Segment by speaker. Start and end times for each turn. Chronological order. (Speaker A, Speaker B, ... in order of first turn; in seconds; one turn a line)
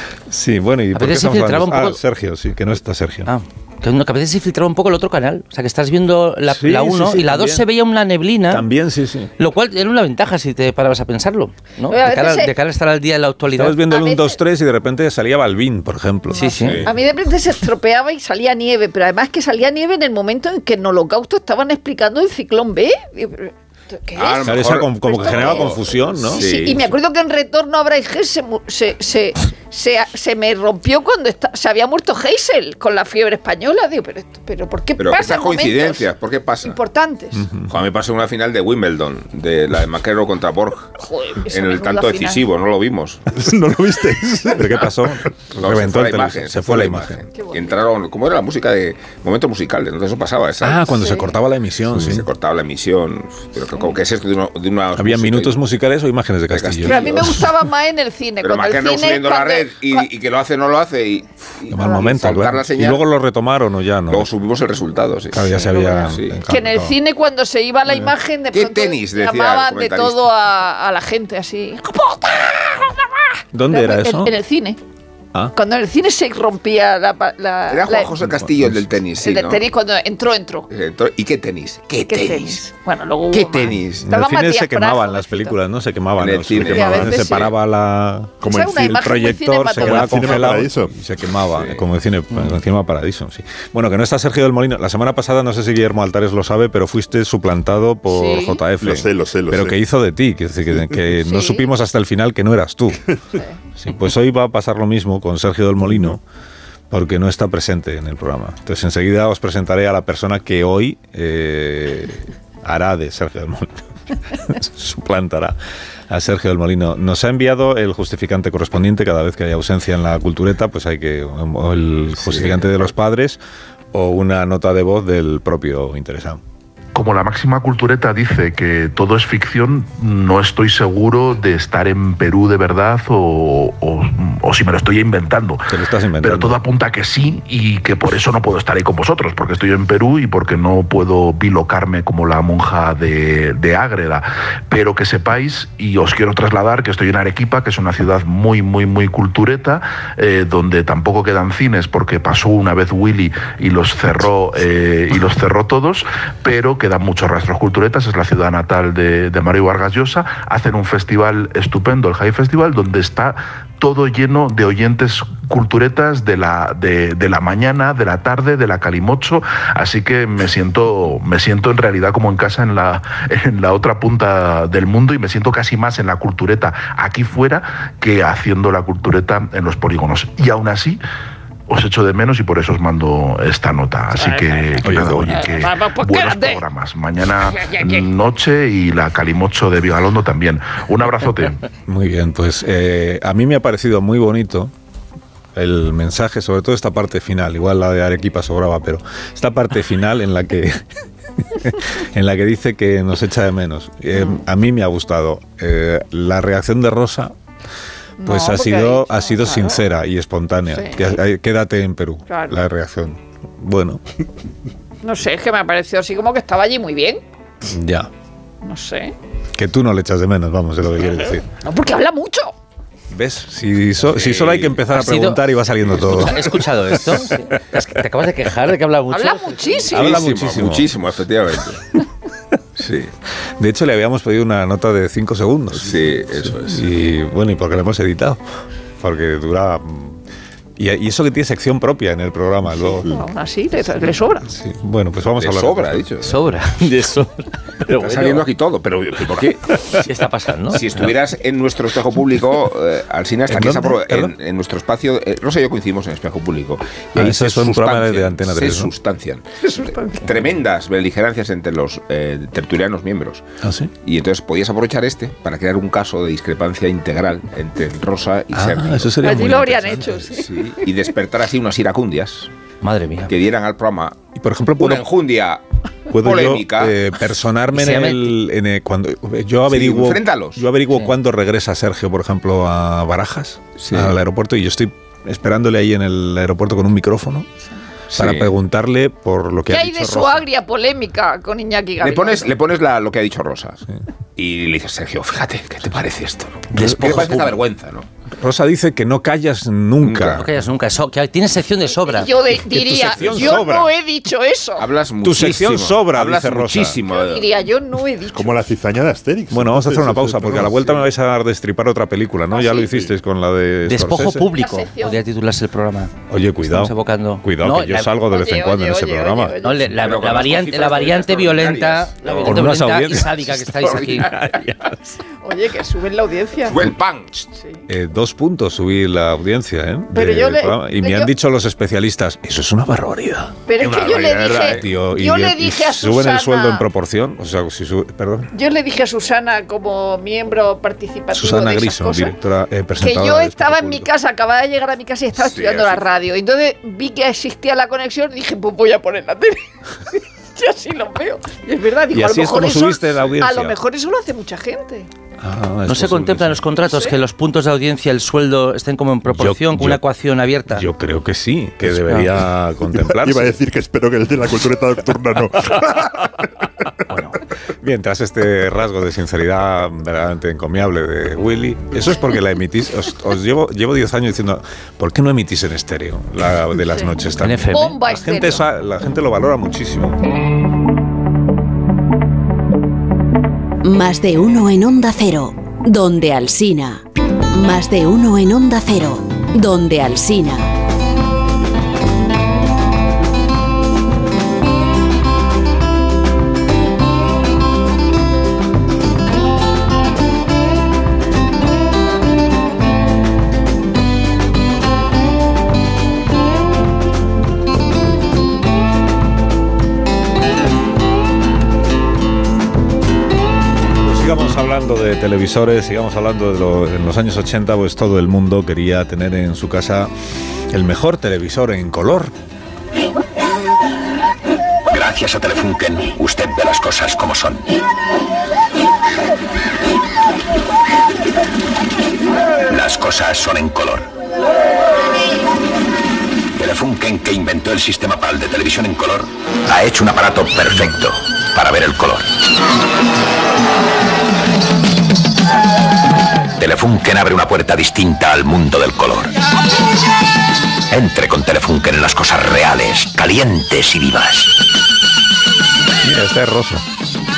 Speaker A: 0.3-3.3
Speaker B: 0.9-2.0
Speaker B: 3.2-8.6
Speaker A: 6.5-7.7
Speaker A: 8.5-9.3
Speaker B: 9.4-13.8
Speaker C: 11.9-12.5
Speaker A: 13.6-16.5
Speaker C: 13.8-14.4
Speaker B: 16.3-16.8
Speaker D: 16.6-16.9
Speaker C: 16.8-36.1
Speaker D: 24.1-26.9
Speaker A: 24.4-26.4
Speaker D: 35.0-36.8
Speaker C: 36.6-37.5
Speaker A: 37.3-37.7
Speaker D: 37.7-40.9
Speaker C: 41.0-42.4
Speaker D: 41.4-43.2
Speaker E: 43.3-44.9
Speaker A: 44.2-47.2
Speaker D: 45.5-51.0
Speaker C: 47.4-47.8
Speaker A: 50.6-52.3
Speaker C: 51.0-51.3
Speaker D: 51.9-55.6
Speaker A: 55.0-57.5
Speaker D: 56.5-57.5
Speaker C: 56.8-60.1
Speaker D: 58.4-63.0
Speaker A: 61.7-64.3
Speaker D: 64.1-66.4
Speaker A: 65.3-67.0
Speaker C: 65.5-74.8
Speaker D: 68.5-70.3
Speaker A: 73.5-74.3
Speaker C: 75.5-78.1
Speaker D: 77.7-79.6
Speaker A: 78.2-78.8
Speaker C: 79.2-80.7
Speaker D: 80.7-82.7
Speaker C: 82.0-85.5
Speaker D: 83.3-84.0
Speaker A: 84.0-103.0
Speaker D: 86.2-87.5
Speaker E: 86.6-87.2
Speaker C: 86.7-87.5
Speaker E: 88.4-89.1
Speaker C: 88.5-90.6
Speaker E: 89.8-90.9
Speaker D: 91.5-91.8
Speaker C: 98.1-98.6
Speaker E: 98.7-99.8
Speaker C: 101.2-101.7
Speaker A: 103.8-106.2
Speaker A: 106.9-115.6
Speaker A: 116.1-123.4
Speaker D: 122.2-122.8
Speaker A: 123.9-126.4
Speaker F: 126.9-181.0
Speaker A: 135.7-136.6
Speaker F: 181.7-191.7
Speaker C: 184.2-184.7
Speaker A: 184.8-185.4
Speaker C: 185.3-186.6
Speaker C: 187.6-188.1
Speaker A: 191.8-194.7
Speaker A: 195.5-200.8
Speaker A: 201.4-207.3
Speaker C: 204.1-204.4
Speaker C: 208.2-209.8
Speaker A: 208.2-214.0
Speaker C: 210.7-211.2
Speaker C: 212.3-212.5
Speaker C: 215.0-217.2
Speaker A: 217.7-218.1
Speaker C: 218.6-219.1
Speaker A: 219.5-221.4
Speaker C: 221.6-222.5
Speaker A: 223.1-227.3
Speaker D: 224.1-224.8
Speaker B: 224.9-230.0
Speaker C: 229.1-230.2
Speaker A: 229.9-231.0
Speaker D: 229.9-231.8
Speaker D: 232.8-233.1
Speaker A: 233.6-238.4
Speaker D: 235.8-236.8
Speaker A: 239.0-240.2
Speaker A: 240.8-243.1
Speaker C: 243.0-244.5
Speaker A: 244.5-246.1
Speaker D: 245.4-246.3
Speaker B: 246.2-248.5
Speaker D: 248.0-249.8
Speaker B: 249.9-250.8
Speaker D: 250.7-263.4
Speaker A: 253.5-254.3
Speaker A: 257.1-258.9
Speaker C: 259.6-260.3
Speaker A: 263.6-263.9
Speaker D: 264.0-269.2
Speaker A: 268.5-270.4
Speaker C: 269.2-270.8
Speaker D: 270.4-272.5
Speaker B: 272.8-273.3
Speaker D: 273.3-274.2
Speaker A: 274.4-275.1
Speaker D: 274.8-275.6
Speaker A: 276.1-287.5
Speaker D: 276.1-276.9
Speaker B: 277.7-278.4
Speaker D: 279.7-280.6
Speaker D: 283.8-284.1
Speaker A: 288.1-290.5
Speaker D: 288.1-288.5
Speaker C: 289.7-292.5
Speaker D: 292.0-293.8
Speaker D: 294.4-298.1
Speaker B: 296.7-297.5
Speaker A: 296.7-297.5
Speaker A: 298.4-300.5
Speaker D: 300.0-300.5
Speaker B: 300.3-302.3
Speaker C: 301.9-304.9
Speaker A: 302.6-303.9
Speaker D: 303.1-303.7
Speaker D: 304.8-307.5
Speaker A: 305.2-307.0
Speaker C: 307.1-308.6
Speaker E: 308.3-311.0
Speaker A: 309.5-314.5
Speaker C: 312.5-313.0
Speaker B: 313.8-318.1
Speaker C: 314.5-315.2
Speaker A: 316.3-319.6
Speaker C: 318.2-320.0
Speaker B: 319.6-324.3
Speaker D: 320.0-322.7
Speaker A: 322.4-324.9
Speaker D: 323.8-324.4
Speaker C: 325.4-326.8
Speaker D: 326.6-327.4
Speaker C: 327.6-327.8
Speaker A: 327.9-333.6
Speaker C: 330.1-331.3
Speaker C: 333.7-336.8
Speaker D: 333.8-334.9
Speaker A: 334.6-338.5
Speaker C: 338.5-342.3
Speaker A: 341.3-344.1
Speaker C: 343.0-355.1
Speaker D: 345.4-346.1
Speaker A: 352.1-353.8
Speaker A: 355.4-356.6
Speaker B: 355.9-360.9
Speaker C: 356.9-357.1
Speaker A: 359.3-360.0
Speaker A: 360.7-363.5
Speaker B: 361.9-362.3
Speaker E: 362.9-366.4
Speaker B: 367.1-367.4
Speaker A: 367.8-380.2
Speaker B: 377.4-377.9
Speaker C: 377.7-378.6
Speaker G: 383.8-390.7
Speaker A: 413.9-420.1
Speaker A: 420.7-422.3
Speaker H: 424.9-427.7
Speaker H: 432.7-434.1
Speaker H: 436.6-442.3
Speaker H: 446.6-449.3
Speaker H: 450.9-454.5
Speaker A: 456.0-456.9